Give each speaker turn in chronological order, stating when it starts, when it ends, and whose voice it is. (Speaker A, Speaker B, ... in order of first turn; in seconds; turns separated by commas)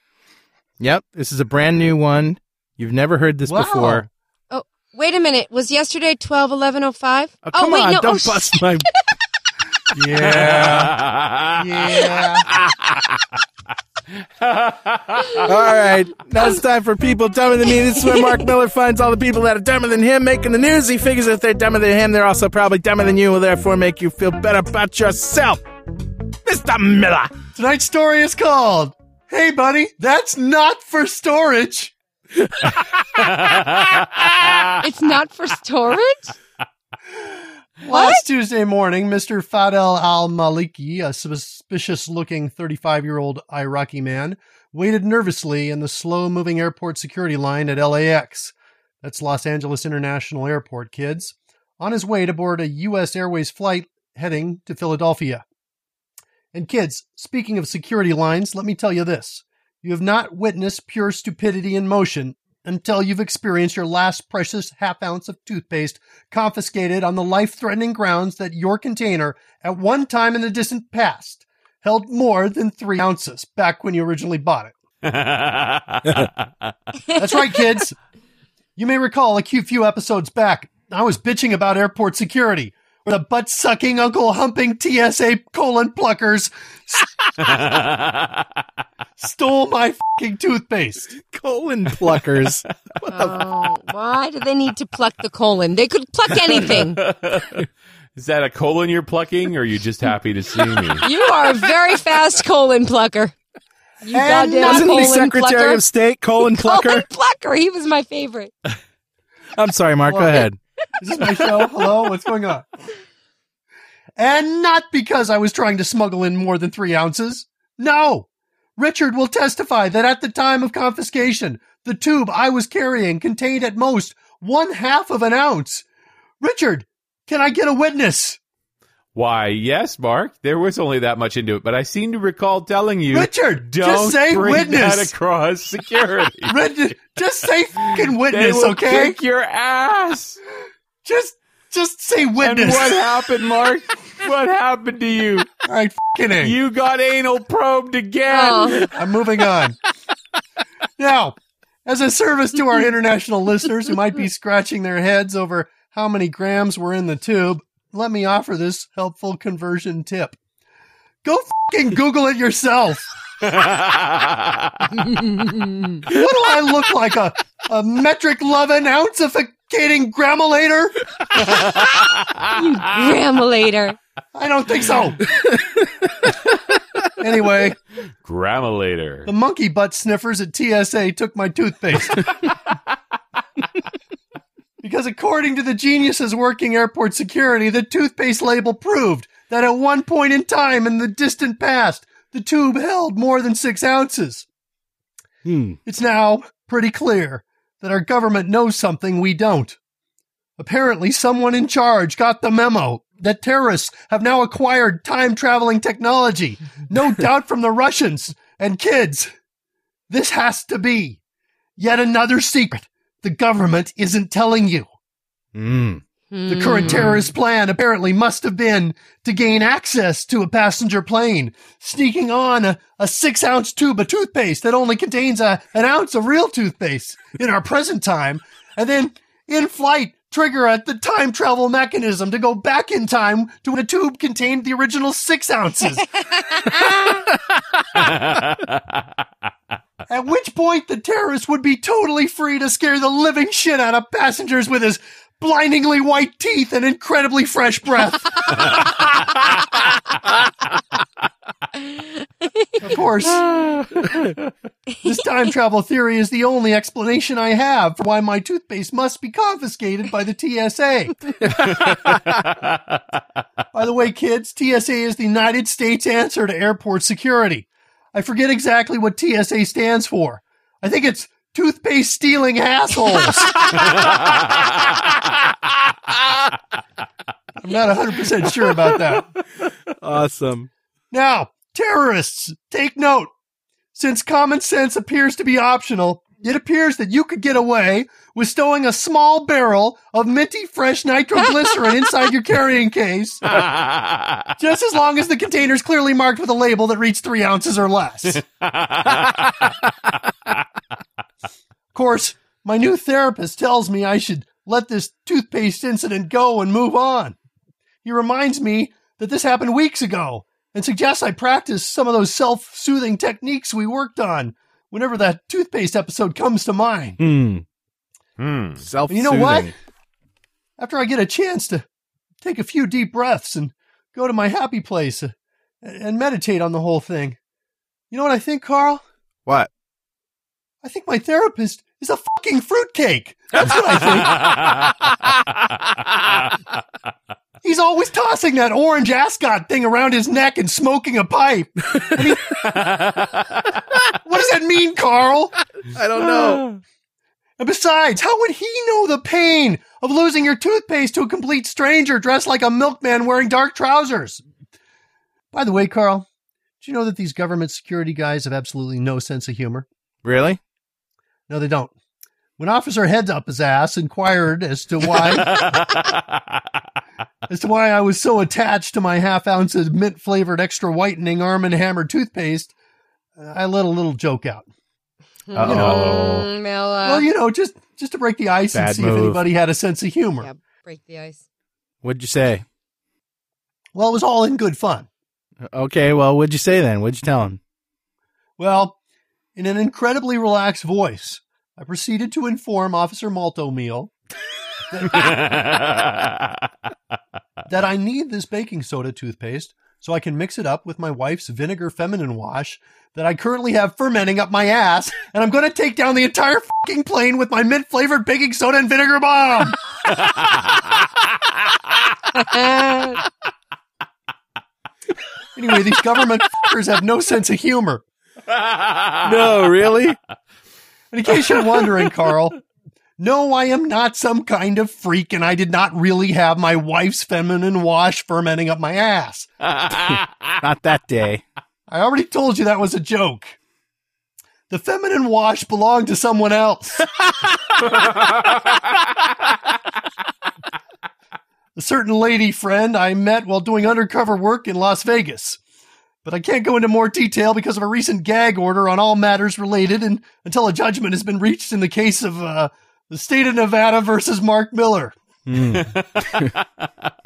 Speaker A: 0.8-4.1, Speaker B: 3.5-4.0, Speaker C: 4.5-8.6, Speaker A: 7.4-8.9, Speaker B: 9.9-11.0, Speaker D: 10.2-13.2, Speaker B: 11.5-12.5, Speaker D: 14.4-15.4, Speaker A: 15.4-25.6, Speaker C: 18.0-18.5, Speaker A: 26.4-27.3, Speaker B: 27.5-31.9, Speaker A: 32.5-32.7, Speaker D: 33.1-34.7, Speaker C: 34.8-36.3, Speaker B: 37.8-55.4, Speaker C: 37.9-38.2, Speaker B: 56.5-74.7, Speaker D: 75.0-76.5, Speaker B: 77.1-78.0, Speaker B: 78.8-87.0, Speaker D: 87.4-88.5, Speaker B: 89.2-91.2, Speaker A: 91.2-93.4, Speaker C: 93.0-97.0, Speaker D: 96.5-101.1, Speaker C: 101.0-103.3, Speaker C: 104.0-105.8, Speaker B: 104.1-105.1, Speaker A: 104.6-107.0, Speaker C: 106.4-108.5, Speaker A: 109.5-110.6, Speaker B: 110.1-110.5, Speaker B: 111.0-112.7, Speaker B: 114.2-125.8, Speaker B: 126.4-128.4, Speaker D: 129.1-136.5, Speaker B: 133.1-135.1, Speaker B: 136.5-139.2, Speaker D: 137.9-140.4, Speaker B: 141.0-143.1, Speaker D: 142.4-145.5, Speaker B: 145.6-146.5, Speaker D: 146.4-148.9, Speaker C: 148.3-148.9, Speaker B: 148.8-149.8, Speaker B: 151.0-160.4, Speaker B: 161.2-163.1, Speaker D: 163.4-164.9, Speaker C: 165.0-166.0, Speaker B: 166.1-171.0, Speaker D: 171.7-172.4, Speaker C: 172.5-174.0, Speaker B: 174.3-175.2, Speaker A: 175.3-176.3, Speaker B: 177.2-177.8, Speaker D: 178.2-179.3, Speaker B: 179.2-182.3, Speaker B: 184.8-194.4, Speaker A: 195.4-195.8, Speaker B: 195.8-199.8, Speaker B: 200.6-209.3, Speaker B: 210.1-211.2, Speaker B: 211.8-214.9, Speaker A: 215.5-216.0, Speaker C: 216.3-217.2, Speaker B: 216.5-236.1, Speaker C: 236.5-237.2, Speaker D: 237.9-239.0, Speaker B: 240.1-248.6, Speaker C: 252.4-252.8, Speaker B: 252.8-253.5, Speaker B: 255.0-261.2, Speaker D: 261.6-262.1, Speaker B: 263.7-273.7, Speaker D: 274.0-274.6, Speaker B: 277.6-279.3, Speaker A: 280.0-280.7, Speaker B: 281.1-283.3, Speaker B: 283.9-293.6, Speaker D: 293.5-294.5, Speaker B: 294.6-298.4, Speaker D: 298.6-299.8, Speaker B: 301.9-307.4, Speaker B: 308.0-317.2, Speaker A: 317.2-317.6, Speaker D: 318.4-318.8, Speaker A: 318.8-319.7, Speaker B: 319.1-319.7, Speaker B: 320.8-321.8, Speaker B: 322.4-327.4, Speaker B: 328.1-329.0, Speaker B: 330.8-334.5, Speaker D: 334.3-334.9, Speaker B: 337.6-342.8, Speaker D: 342.6-343.4, Speaker B: 344.2-345.6, Speaker A: 345.8-346.7, Speaker B: 347.6-354.4, Speaker B: 355.5-356.2, Speaker B: 356.8-359.9, Speaker A: 360.2-360.6, Speaker B: 361.5-361.9, Speaker B: 362.6-365.6, Speaker D: 365.5-366.2, Speaker B: 367.5-372.7, Speaker B: 373.4-374.7, Speaker C: 375.5-377.2, Speaker A: 375.5-376.5, Speaker B: 375.6-376.0, Speaker B: 377.0-380.5, Speaker A: 378.7-379.4, Speaker C: 380.4-381.4, Speaker A: 382.0-382.6, Speaker B: 383.9-385.1, Speaker A: 385.7-387.6, Speaker B: 388.6-389.0, Speaker B: 389.6-394.1, Speaker B: 394.9-395.4, Speaker D: 395.1-396.5, Speaker B: 397.7-409.8, Speaker D: 410.2-411.0, Speaker C: 412.3-413.2, Speaker B: 415.6-418.0, Speaker D: 418.5-419.3, Speaker A: 419.2-420.2, Speaker B: 421.1-422.6, Speaker B: 423.2-429.5, Speaker D: 429.7-430.5, Speaker A: 430.1-431.4, Speaker B: 431.9-433.6, Speaker B: 434.7-437.1, Speaker D: 438.1-438.3, Speaker B: 441.8-445.6, Speaker B: 446.2-455.1, Speaker A: 455.4-456.5, Speaker D: 455.7-456.6